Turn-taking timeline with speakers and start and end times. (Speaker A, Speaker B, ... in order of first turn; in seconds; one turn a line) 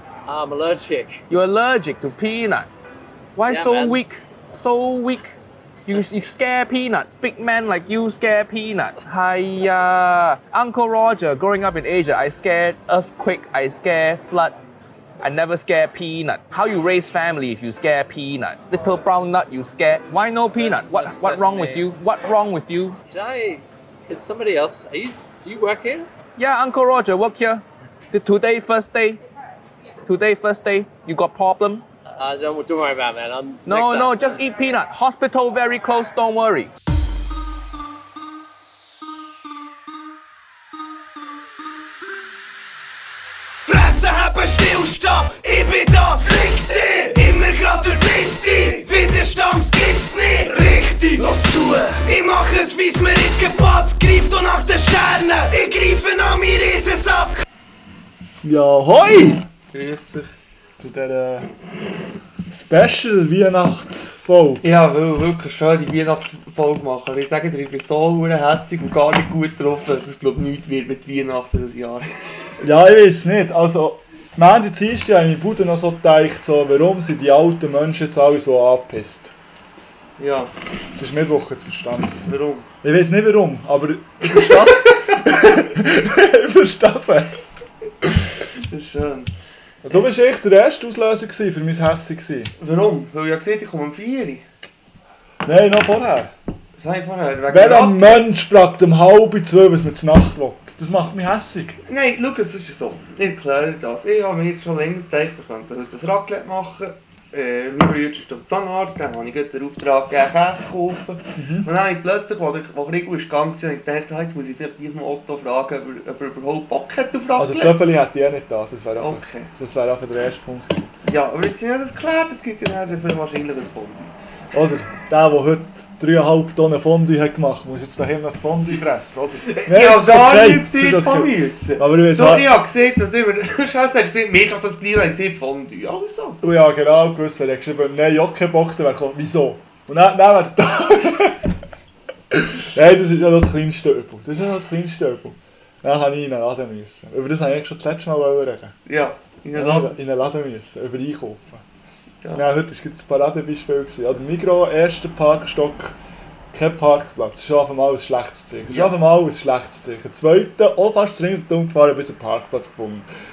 Speaker A: 0.3-1.2
Speaker B: 1.3-2.7
Speaker B: 3.4-5.3
Speaker A: 3.5-4.0
Speaker B: 5.9-14.6
Speaker B: 15.2-23.0
Speaker A: 20.6-21.9
Speaker A: 23.1-26.1
Speaker B: 26.4-29.2
Speaker B: 30.0-31.8
Speaker A: 32.1-34.4
Speaker B: 33.7-36.7
Speaker C: 43.7-57.4
Speaker D: 58.4-59.5
Speaker E: 59.7-60.3
Speaker D: 60.8-61.5
Speaker D: 62.5-64.6
Speaker E: 64.6-72.1
Speaker D: 72.6-79.3
Speaker E: 80.2-80.5
Speaker D: 80.9-82.3
Speaker E: 82.3-82.7
Speaker D: 82.8-87.4
Speaker E: 88.6-89.3
Speaker D: 89.8-92.5
Speaker E: 92.6-94.5
Speaker D: 95.4-96.3
Speaker E: 96.8-98.3
Speaker D: 97.5-101.8
Speaker E: 101.9-117.9
Speaker D: 111.4-111.7
Speaker D: 117.4-120.9
Speaker E: 119.0-119.5
Speaker E: 121.0-124.2
Speaker D: 124.5-132.5
Speaker E: 129.5-136.4
Speaker D: 136.4-141.6
Speaker D: 142.3-148.8
Speaker E: 148.9-150.0
Speaker D: 149.5-151.6
Speaker E: 152.2-152.5
Speaker D: 152.3-156.0
Speaker D: 156.5-163.1
Speaker E: 158.7-158.9